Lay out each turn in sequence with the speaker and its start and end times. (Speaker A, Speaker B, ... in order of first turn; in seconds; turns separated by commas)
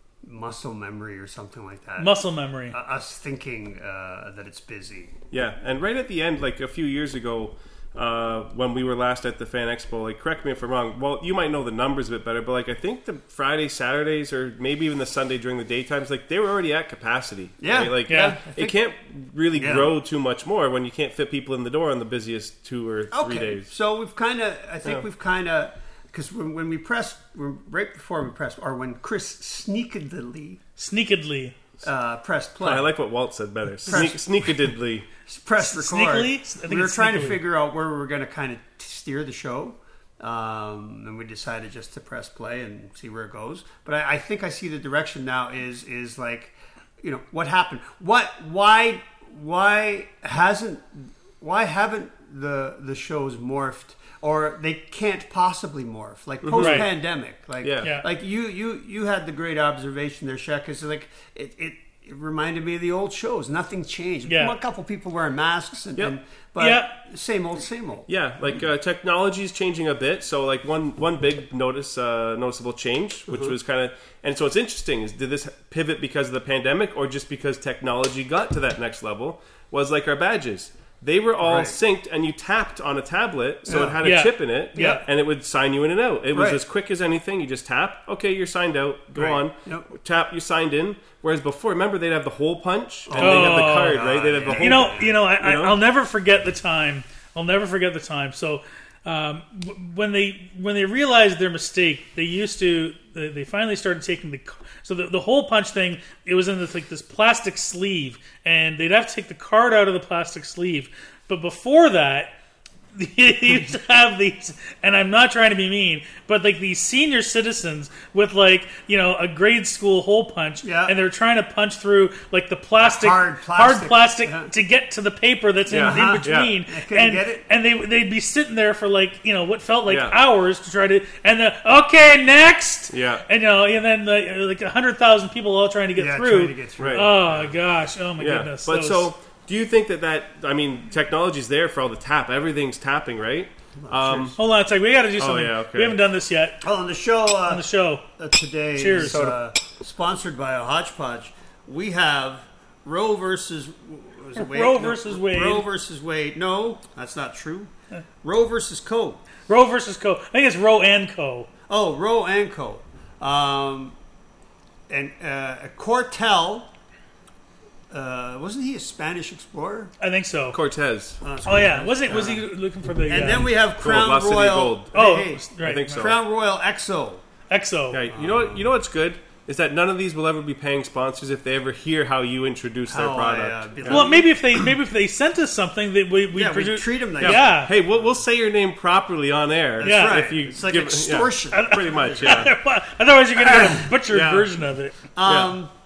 Speaker A: 0.2-2.1, Speaker B: 2.0-2.8, Speaker A: 2.7-5.1, Speaker C: 5.3-23.7, Speaker A: 17.6-18.8, Speaker B: 18.1-18.4, Speaker A: 19.6-19.9, Speaker A: 23.1-30.6, Speaker B: 30.8-31.5, Speaker A: 31.8-32.9, Speaker C: 32.6-35.1, Speaker A: 33.9-34.6, Speaker A: 35.3-68.1, Speaker B: 35.6-37.4, Speaker C: 56.4-56.9, Speaker B: 56.6-56.9, Speaker C: 57.6-57.9, Speaker B: 64.3-64.6, Speaker B: 66.6-67.0, Speaker C: 68.1-95.8, Speaker A: 81.4-81.8, Speaker A: 83.7-84.0, Speaker B: 84.0-85.0, Speaker A: 84.8-85.0, Speaker A: 86.3-86.6, Speaker A: 89.2-89.9, Speaker A: 93.1-95.2, Speaker B: 93.2-112.3, Speaker B: 113.0-139.1, Speaker A: 120.6-121.0, Speaker A: 122.8-124.5, Speaker C: 125.7-126.5, Speaker A: 125.8-127.4, Speaker C: 129.9-130.2, Speaker C: 132.9-133.2, Speaker A: 136.0-137.5, Speaker C: 136.8-137.1, Speaker C: 138.2-144.4, Speaker A: 143.8-144.4, Speaker B: 144.4-146.6, Speaker C: 145.2-146.0, Speaker A: 146.6-157.7, Speaker B: 147.5-148.0, Speaker B: 148.8-149.4, Speaker B: 154.4-155.7, Speaker A: 158.2-159.2, Speaker B: 159.5-161.5, Speaker A: 161.7-163.9, Speaker A: 164.9-166.7, Speaker A: 167.9-169.9, Speaker B: 170.0-170.6, Speaker C: 170.5-171.2, Speaker A: 171.2-172.4, Speaker B: 171.5-173.5, Speaker A: 173.1-177.2, Speaker C: 173.8-174.9, Speaker B: 174.9-176.1, Speaker C: 175.6-176.2, Speaker B: 177.5-178.0, Speaker C: 177.9-184.1, Speaker A: 178.1-178.7, Speaker A: 182.9-184.3, Speaker B: 183.9-187.7, Speaker A: 186.3-187.6, Speaker C: 187.2-192.5, Speaker A: 189.8-192.5, Speaker B: 189.8-190.2, Speaker B: 191.5-195.0, Speaker A: 193.4-193.9, Speaker C: 194.1-194.5, Speaker A: 195.2-195.7, Speaker C: 195.2-195.5